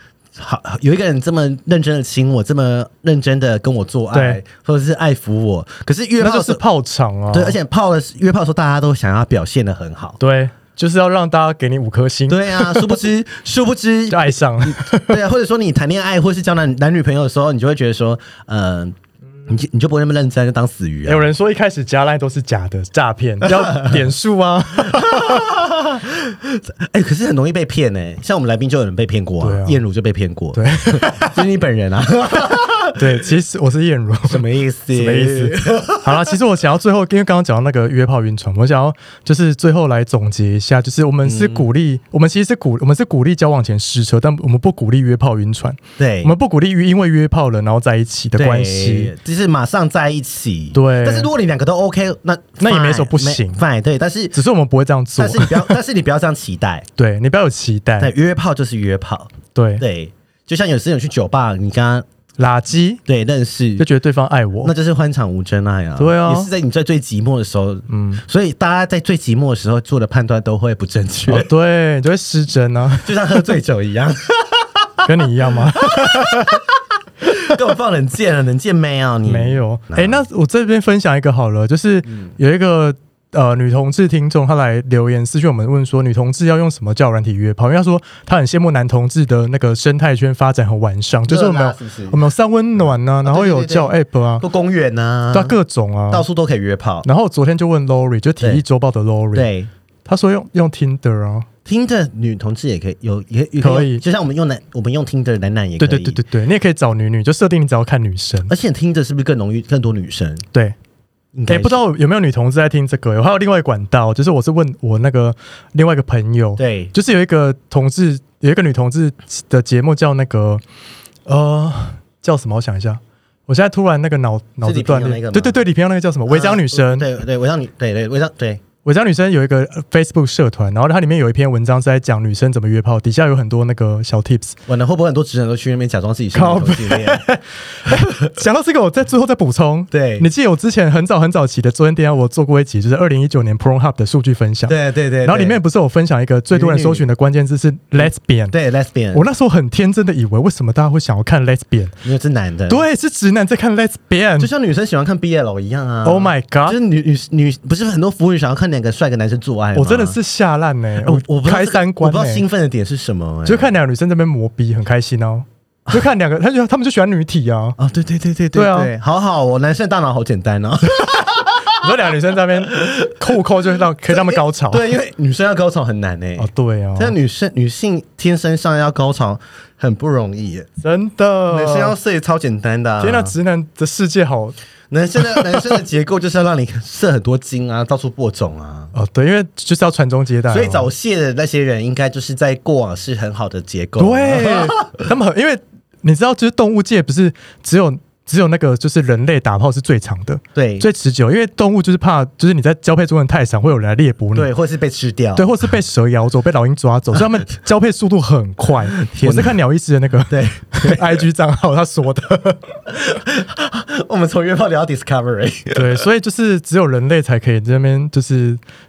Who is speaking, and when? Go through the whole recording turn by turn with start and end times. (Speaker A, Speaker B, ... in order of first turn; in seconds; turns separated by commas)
Speaker A: 0.4-6.6, Speaker B: 4.1-4.4, Speaker B: 6.2-7.6, Speaker A: 7.3-10.2, Speaker B: 10.2-13.0, Speaker A: 12.3-18.9, Speaker B: 14.1-15.2, Speaker A: 19.5-21.3, Speaker B: 21.1-25.7, Speaker A: 23.4-24.0, Speaker A: 25.0-33.2, Speaker B: 29.4-29.8, Speaker B: 30.6-31.4, Speaker B: 33.0-34.4, Speaker A: 34.2-36.4, Speaker B: 34.9-49.1, Speaker A: 41.2-41.7, Speaker A: 46.0-46.3, Speaker A: 48.4-54.4, Speaker B: 50.7-51.3, Speaker B: 52.6-53.6, Speaker B: 54.3-55.8, Speaker A: 55.2-56.9, Speaker B: 57.0-58.1, Speaker A: 58.0-62.0, Speaker B: 59.5-59.8, Speaker B: 62.4-63.0, Speaker A: 63.1-63.9, Speaker B: 63.8-64.7, Speaker A: 64.6-71.5, Speaker B: 66.0-66.5, Speaker B: 67.9-68.2, Speaker B: 71.3-73.5, Speaker A: 73.0-76.7, Speaker B: 75.0-76.6, Speaker A: 77.2-80.3, Speaker B: 79.3-94.4, Speaker A: 82.1-82.3, Speaker A: 91.3-92.2, Speaker A: 92.8-95.6, Speaker B: 95.3-96.3, Speaker A: 96.1-97.1, Speaker B: 97.0-99.5, Speaker A: 99.3-99.7, Speaker B: 100.1-101.5, Speaker A: 101.7-106.2, Speaker B: 103.6-104.0, Speaker B: 105.8-108.5, Speaker A: 108.5-110.5, Speaker A: 111.3-111.8, Speaker B: 111.5-120.6, Speaker A: 116.6-116.9, Speaker B: 121.3-127.1, Speaker A: 124.6-125.6, Speaker A: 126.3-128.6, Speaker B: 128.8-134.6, Speaker A: 134.7-137.2, Speaker B: 136.3-148.5, Speaker A: 137.9-138.2, Speaker A: 139.9-140.3, Speaker A: 144.7-145.6, Speaker A: 146.5-147.1, Speaker A: 148.0-149.3, Speaker B: 149.1-152.0, Speaker A: 152.0-152.8, Speaker B: 152.7-154.5, Speaker A: 154.4-160.2, Speaker B: 156.1-156.8, Speaker B: 159.8-162.4, Speaker A: 161.0-163.8, Speaker B: 163.5-167.8, Speaker A: 167.8-173.4, Speaker B: 168.5-168.9, Speaker B: 171.0-174.9, Speaker A: 174.1-180.7, Speaker B: 176.4-177.2, Speaker B: 180.8-181.9, Speaker A: 181.5-183.3, Speaker B: 183.0-184.6, Speaker A: 184.9-188.9, Speaker B: 185.2-185.6, Speaker B: 188.9-190.9, Speaker A: 190.5-195.0, Speaker B: 194.0-204.5, Speaker A: 200.6-200.9, Speaker A: 204.3-205.5, Speaker B: 205.4-212.7, Speaker A: 209.0-209.6, Speaker A: 210.3-211.3, Speaker A: 212.9-216.1, Speaker B: 215.8-218.6